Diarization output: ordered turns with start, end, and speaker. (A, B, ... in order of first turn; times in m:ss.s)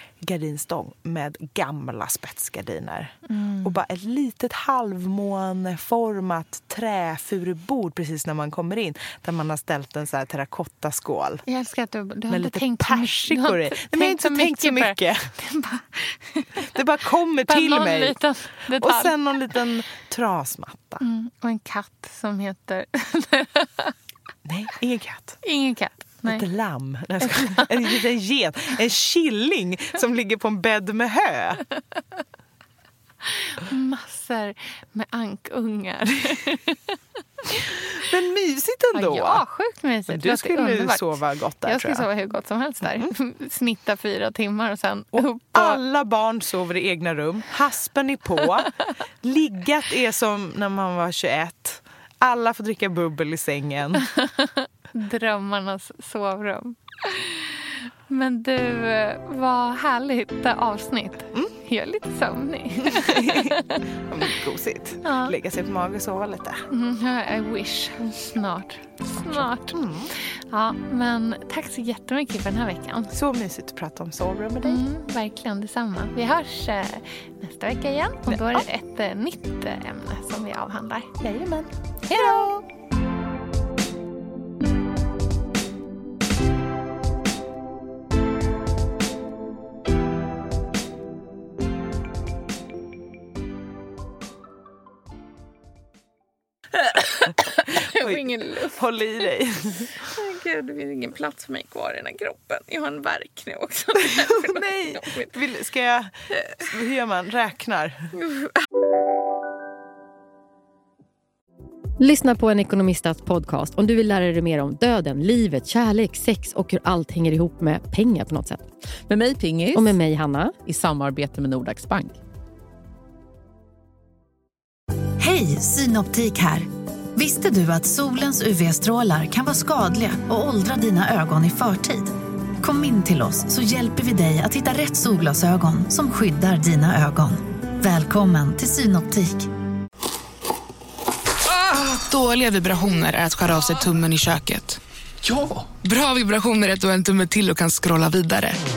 0:00.2-0:11.4 A
0:03.3-0:03.8 B
0:11.5-0:16.8 B
0:12.3-0:15.3 A
0:16.6-0:21.0 A
0:17.5-0:19.6 B
0:21.0-0:23.9 B
0:24.4-0:25.4 A
0:25.4-0:26.4 B
0:26.2-0:31.6 A
0:27.2-0:27.9 B
0:33.2-0:36.9 B
0:37.9-0:39.4 A
0:38.9-0:45.8 B
0:40.1-0:42.1 A
0:42.8-0:43.1 A
0:45.5-0:54.1 A
0:54.1-1:03.8 B
1:02.8-1:06.7 A
1:05.0-1:05.3 B
1:06.7-1:13.1 B
1:09.3-1:10.1 A
1:13.1-1:14.8 A
1:14.6-1:21.1 B
1:18.3-1:18.7 A
1:21.2-1:22.6 A
1:22.1-1:22.5 B
1:36.8-1:38.8 B
1:37.7-1:39.9 A
1:40.0-1:45.3 B
1:44.0-1:48.1 A
1:52.0-1:58.7 C
1:59.1-2:00.0 D
1:59.7-2:00.6 C
2:00.6-2:02.2 D
2:05.2-2:19.5 E
2:21.5-2:24.8 F
2:25.8-2:28.6 F